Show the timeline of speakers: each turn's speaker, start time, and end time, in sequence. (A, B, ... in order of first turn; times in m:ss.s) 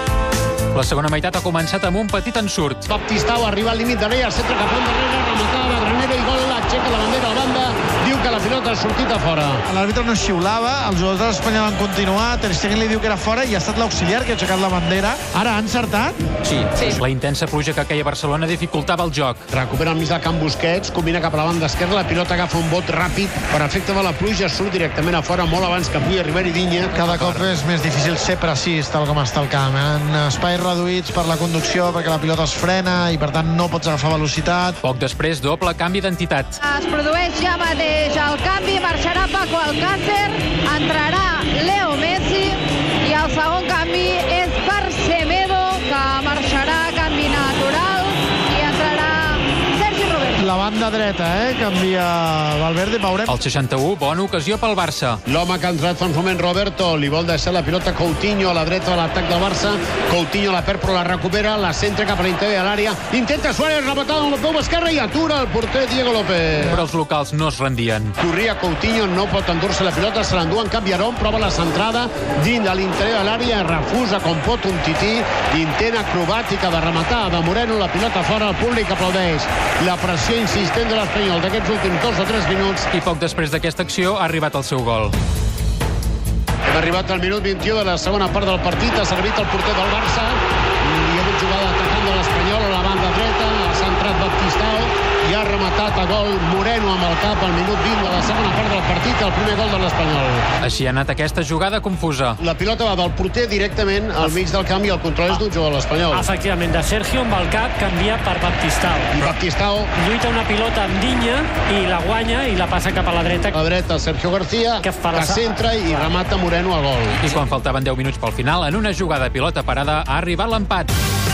0:00.7-0:02.8 A
0:02.9-0:09.6 B
0:09.6-0:16.2 C
0:16.4-0:19.4 A
0:19.5-0:26.9 B
0:26.9-0:34.8 C
0:26.9-0:27.6 A
0:34.8-0:36.6 A
0:36.6-0:50.5 D
0:50.4-0:53.4 C
0:53.3-0:55.2 A
0:55.3-1:06.8 B
1:06.6-1:08.2 A
1:08.2-1:22.9 B
1:22.9-1:25.1 A
1:26.7-1:40.4 B
1:40.6-1:42.4 A
1:42.4-1:46.3 B
1:46.1-1:49.1 E
1:49.1-1:49.9 B
1:50.0-1:53.6 E
1:53.5-1:57.2 B
1:54.8-1:56.1 E
1:57.2-2:00.9 A